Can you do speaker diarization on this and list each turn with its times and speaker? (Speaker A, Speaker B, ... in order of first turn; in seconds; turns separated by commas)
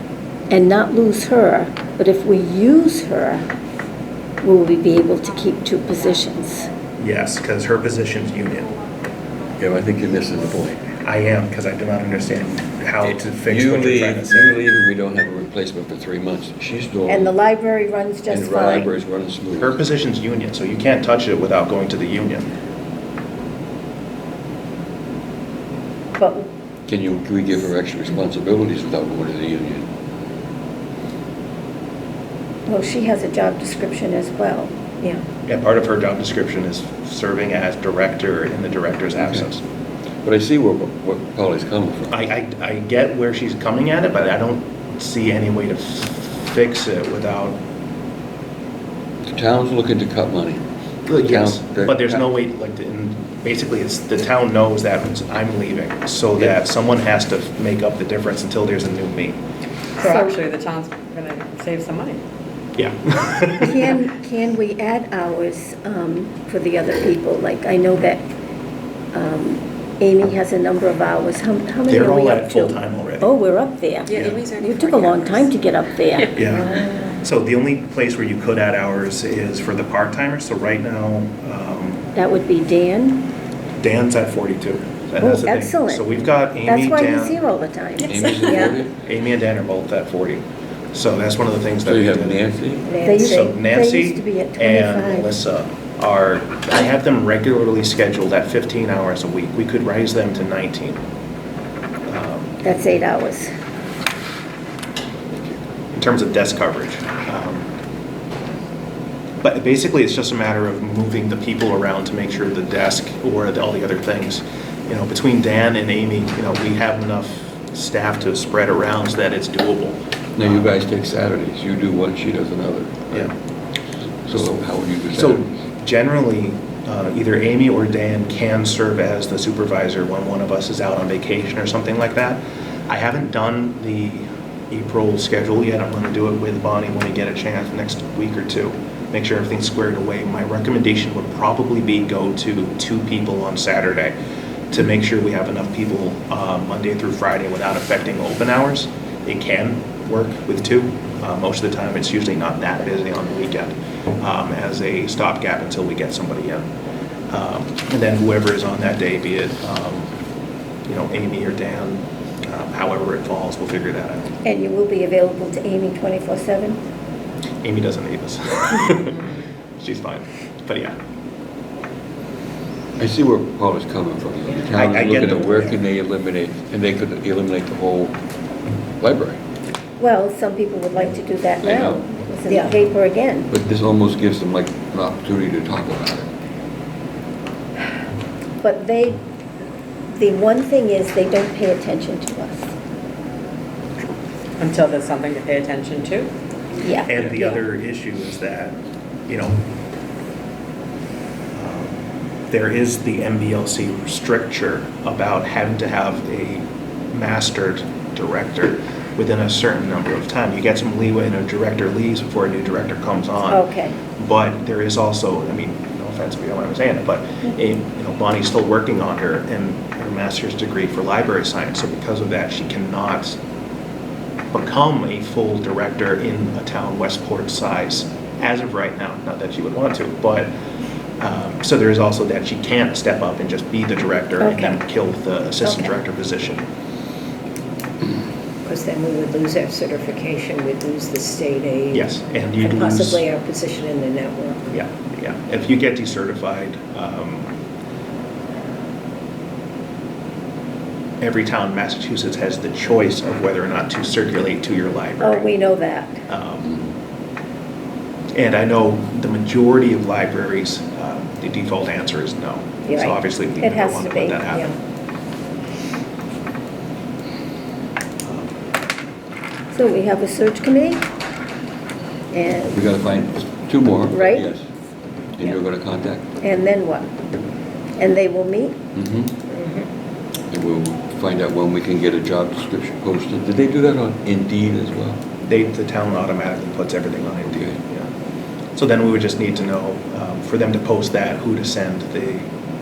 Speaker A: 0.5-3.5, Speaker A: 4.4-6.7, Speaker B: 7.0-8.7, Speaker C: 9.6-10.8, Speaker B: 11.0-14.6, Speaker C: 13.0-17.3, Speaker A: 17.1-18.9, Speaker C: 18.3-19.8, Speaker B: 19.5-22.5, Speaker A: 26.1-26.5, Speaker C: 26.9-29.9, Speaker A: 32.7-34.8, Speaker B: 35.5-39.6, Speaker C: 39.2-39.5, Speaker C: 40.2-42.1, Speaker B: 42.1-47.6, Speaker C: 49.2-50.6, Speaker B: 51.0-59.4, Speaker C: 51.1-52.2, Speaker D: 60.0-62.2, Speaker A: 60.0-60.4, Speaker B: 62.8-63.9, Speaker A: 63.6-68.3, Speaker A: 69.1-77.1, Speaker B: 71.9-73.3, Speaker D: 74.1-75.5, Speaker B: 74.1-74.4, Speaker B: 76.3-82.0, Speaker A: 82.1-83.3, Speaker B: 83.8-87.4, Speaker A: 85.2-88.2, Speaker D: 88.0-88.8, Speaker C: 88.0-89.0, Speaker E: 88.5-88.7, Speaker B: 89.0-92.4, Speaker C: 91.8-92.9, Speaker E: 92.8-93.5, Speaker A: 93.0-95.4, Speaker B: 93.3-101.0, Speaker B: 102.1-102.6, Speaker A: 102.6-103.5, Speaker B: 105.9-107.7, Speaker B: 109.4-120.7, Speaker C: 120.4-123.3, Speaker C: 124.2-125.5, Speaker B: 125.1-144.2, Speaker B: 144.7-156.7, Speaker B: 157.3-160.1, Speaker B: 160.9-164.3, Speaker A: 164.4-166.8, Speaker B: 167.6-170.9, Speaker C: 173.0-178.2, Speaker B: 174.7-175.7, Speaker C: 179.0-179.4, Speaker A: 180.0-183.5, Speaker C: 181.6-182.1, Speaker E: 182.5-182.7, Speaker C: 183.5-186.3, Speaker A: 188.6-189.2, Speaker A: 190.1-192.7, Speaker D: 194.6-196.3, Speaker A: 196.8-197.6, Speaker B: 197.1-198.8, Speaker B: 199.3-199.6, Speaker B: 201.5-202.0, Speaker B: 202.5-223.4, Speaker A: 213.4-214.0, Speaker B: 224.5-230.5, Speaker B: 231.2-236.6, Speaker A: 234.4-234.8, Speaker A: 235.6-235.9, Speaker E: 238.6-244.7, Speaker B: 241.9-243.2, Speaker B: 244.7-247.5, Speaker B: 251.2-255.5, Speaker A: 255.2-256.2, Speaker B: 256.3-256.7, Speaker C: 256.6-256.9, Speaker B: 258.3-264.7, Speaker A: 262.9-264.4, Speaker E: 264.5-264.7, Speaker B: 268.2-268.5, Speaker A: 269.7-271.1, Speaker A: 272.3-272.8, Speaker C: 272.7-274.6, Speaker A: 274.1-274.5, Speaker C: 275.4-276.3, Speaker A: 276.4-277.1, Speaker A: 278.0-278.8, Speaker C: 278.9-279.4, Speaker C: 280.5-285.2, Speaker B: 285.4-288.1, Speaker C: 287.5-287.8, Speaker B: 288.7-292.5